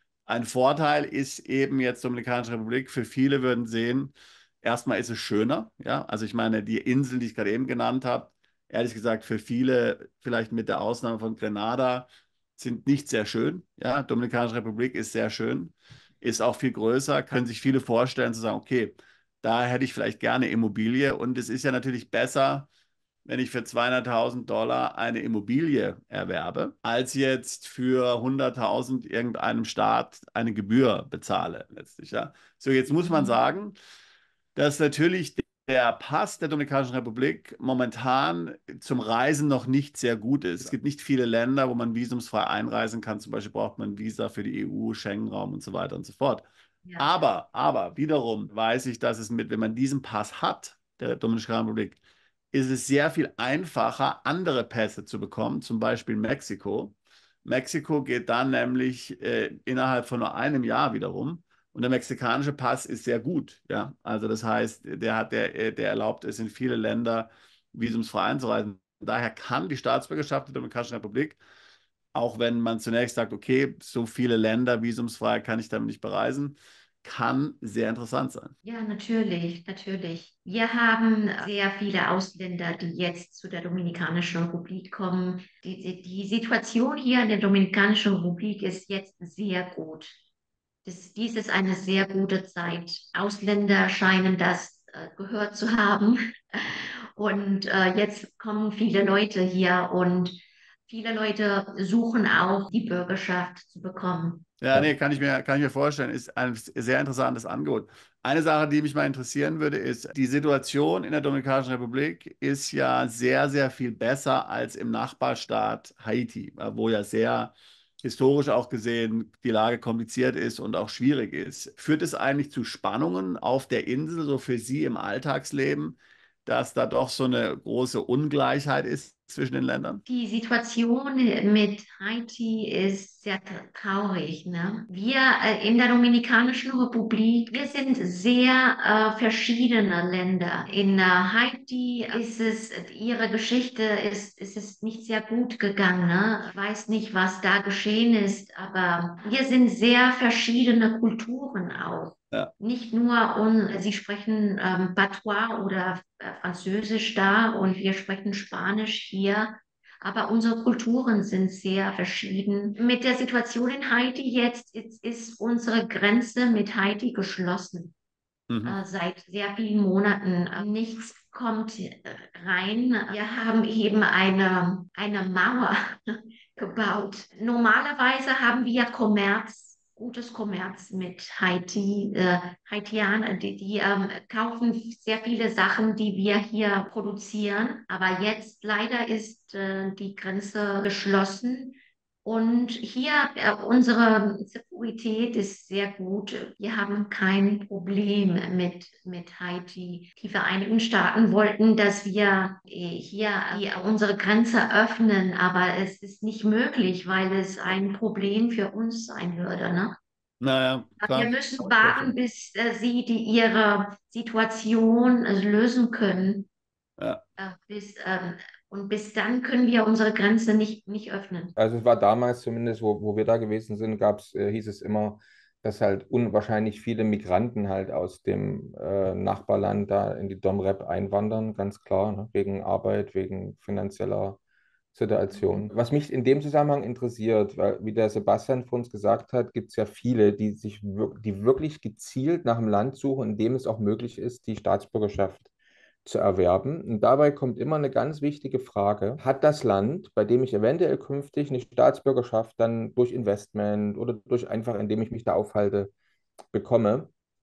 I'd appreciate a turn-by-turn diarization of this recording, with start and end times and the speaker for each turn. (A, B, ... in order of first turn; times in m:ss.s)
0:00.3-0:22.7 A
0:23.3-0:33.8 A
0:33.0-0:33.4 B
0:34.6-0:46.5 A
0:46.8-0:47.3 B
0:47.0-0:52.0 A
0:52.5-1:11.4 A
1:12.1-1:18.5 A
1:18.6-1:30.2 B
1:30.8-1:44.5 B
1:44.6-2:10.0 A
2:10.1-2:47.9 B
2:48.5-2:48.8 A
2:48.6-3:30.0 B
3:30.4-3:31.4 A
3:31.0-3:36.5 B
3:31.8-3:32.1 C
3:37.0-3:37.2 A
3:37.4-3:41.6 B
3:41.6-3:54.4 C
3:54.9-4:05.5 C
3:55.3-3:55.6 B
4:06.0-4:15.9 C
4:16.5-4:17.1 C